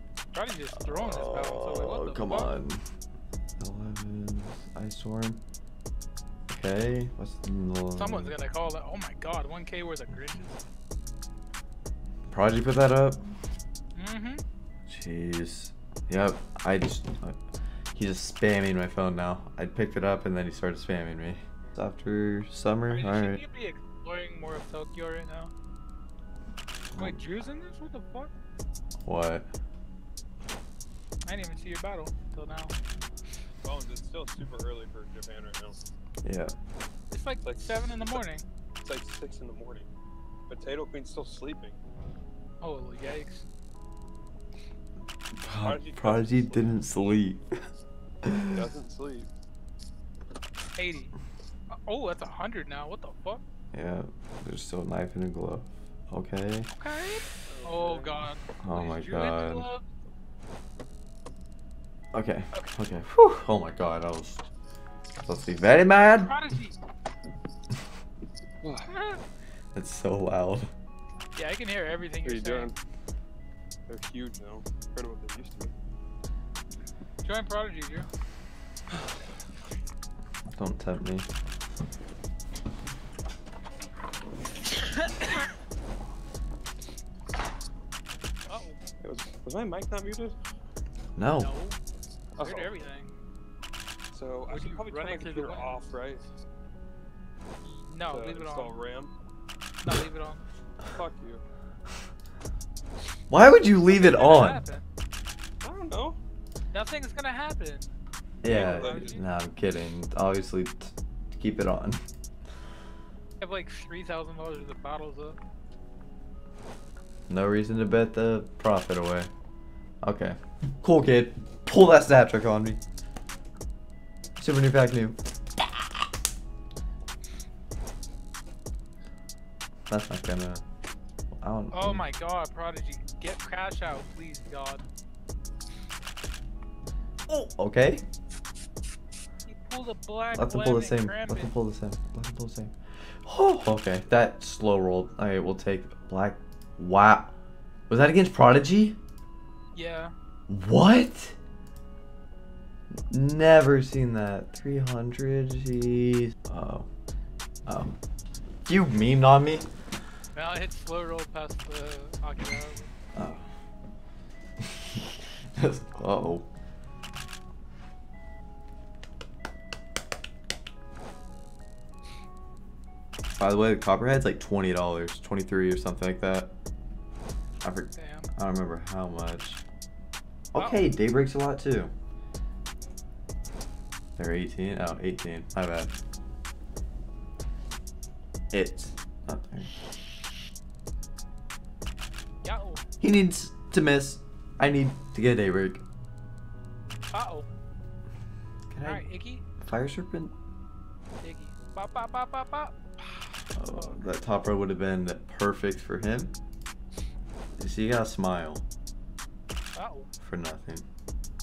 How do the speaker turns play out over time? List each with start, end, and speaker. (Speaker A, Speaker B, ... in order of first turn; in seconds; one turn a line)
Speaker A: 0.3-2.5
Speaker B: 0.8-2.8
Speaker B: 3.6-5.4
Speaker B: 6.5-8.4
Speaker A: 8.0-10.6
Speaker B: 12.3-13.2
Speaker A: 13.9-14.4
Speaker B: 14.9-17.4
Speaker B: 17.9-23.4
Speaker A: 22.9-25.5
Speaker B: 26.9-27.2
Speaker A: 27.0-28.3
Speaker B: 29.0-29.5
Speaker A: 31.2-32.8
Speaker C: 33.6-35.8
Speaker B: 36.2-36.5
Speaker A: 37.1-38.5
Speaker C: 37.4-38.2
Speaker C: 38.8-39.9
Speaker C: 40.5-41.8
Speaker A: 42.6-43.5
Speaker B: 45.4-47.5
Speaker C: 45.6-47.2
Speaker B: 48.2-48.6
Speaker C: 48.5-49.3
Speaker A: 50.8-51.1
Speaker A: 51.7-53.4
Speaker B: 53.7-56.7
Speaker A: 56.8-59.9
Speaker C: 57.5-58.3
Speaker B: 58.6-59.7
Speaker B: 62.1-64.5
Speaker B: 65.2-66.4
Speaker A: 66.1-66.8
Speaker C: 68.6-68.9
Speaker A: 68.9-69.2
Speaker B: 69.7-70.7
Speaker A: 71.3-72.7
Speaker C: 72.2-72.8
Speaker C: 73.9-75.7
Speaker A: 77.2-78.1
Speaker B: 80.5-81.3
Speaker A: 85.0-85.5
Speaker A: 88.5-88.8
Speaker C: 89.0-90.4
Speaker B: 91.2-91.5
Speaker A: 91.2-91.8
Speaker C: 92.4-92.8
Speaker A: 92.4-93.1
Speaker C: 94.1-96.2
Speaker A: 94.5-95.8
Speaker A: 97.9-98.7
Speaker C: 98.0-99.1
Speaker A: 99.8-100.4
Speaker C: 100.9-101.4
Speaker B: 103.3-104.6
Speaker A: 103.9-104.8
Speaker C: 105.6-106.2
Speaker A: 106.7-107.9
Speaker B: 108.4-112.0
Speaker A: 108.5-109.2
Speaker C: 108.5-109.2
Speaker A: 113.4-115.4
Speaker B: 117.3-119.3
Speaker B: 120.0-122.8
Speaker B: 124.4-125.2
Speaker B: 129.9-130.6
Speaker B: 131.4-132.1
Speaker A: 131.7-134.8
Speaker B: 137.3-138.1
Speaker A: 139.4-141.5
Speaker B: 140.3-142.7
Speaker B: 143.2-147.3
Speaker B: 147.9-149.0
Speaker A: 149.8-150.1
Speaker B: 150.5-151.4
Speaker B: 153.0-156.9
Speaker B: 157.7-157.9
Speaker B: 158.7-159.7
Speaker A: 160.3-162.9
Speaker B: 163.2-163.5
Speaker B: 164.6-166.5
Speaker B: 173.4-176.5
Speaker B: 177.6-179.6
Speaker A: 178.0-178.3
Speaker B: 180.5-181.9
Speaker A: 180.6-180.9
Speaker B: 184.2-185.9
Speaker B: 188.5-189.7
Speaker A: 192.4-192.8
Speaker B: 193.0-195.8
Speaker A: 197.1-197.5
Speaker B: 198.7-199.1
Speaker A: 198.8-199.4
Speaker B: 199.6-200.3
Speaker A: 201.2-204.2
Speaker B: 203.6-206.3
Speaker B: 207.6-208.6
Speaker A: 209.7-210.1
Speaker B: 210.2-210.9